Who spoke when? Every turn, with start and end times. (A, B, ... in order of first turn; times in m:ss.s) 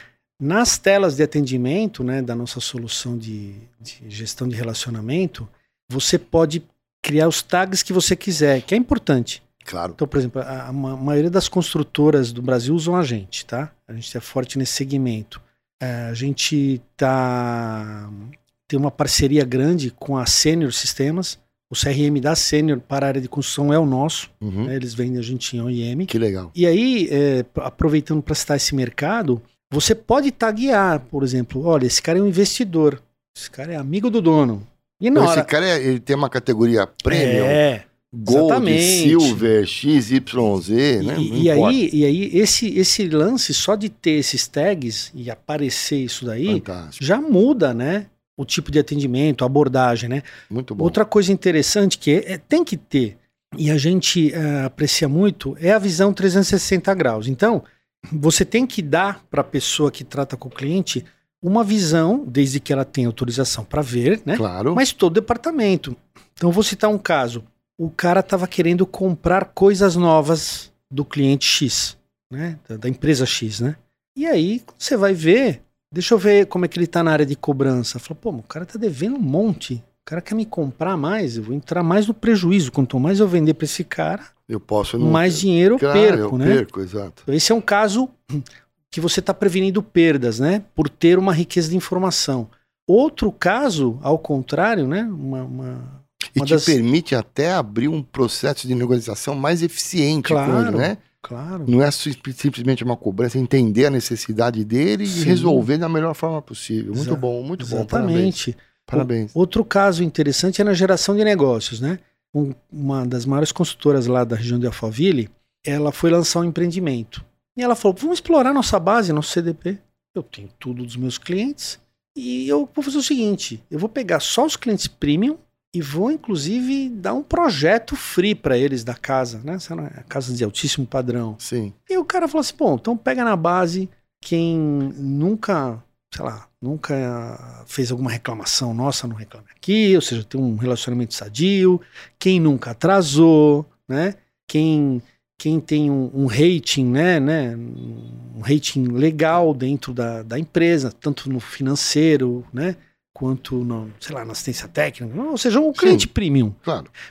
0:00.4-0:09.4 A
0:09.6-0:10.0 B
0:10.0-0:35.5 A
0:24.4-0:24.7 B
0:26.1-0:26.5 B
0:35.1-0:41.8 B
0:37.1-0:39.5 A
0:41.0-1:24.3 A
0:46.5-0:47.0 B
0:50.5-0:51.0 B
1:04.3-1:04.8 B
1:24.5-1:27.2 B
1:25.0-1:26.6 A
1:27.3-1:36.8 A
1:36.3-1:41.0 B
1:40.2-1:41.7 A
1:41.7-1:49.3 B
1:45.1-1:45.7 A
1:46.9-2:36.6 A
2:11.4-2:11.7 B
2:35.8-2:36.1 B
2:36.6-2:36.9 B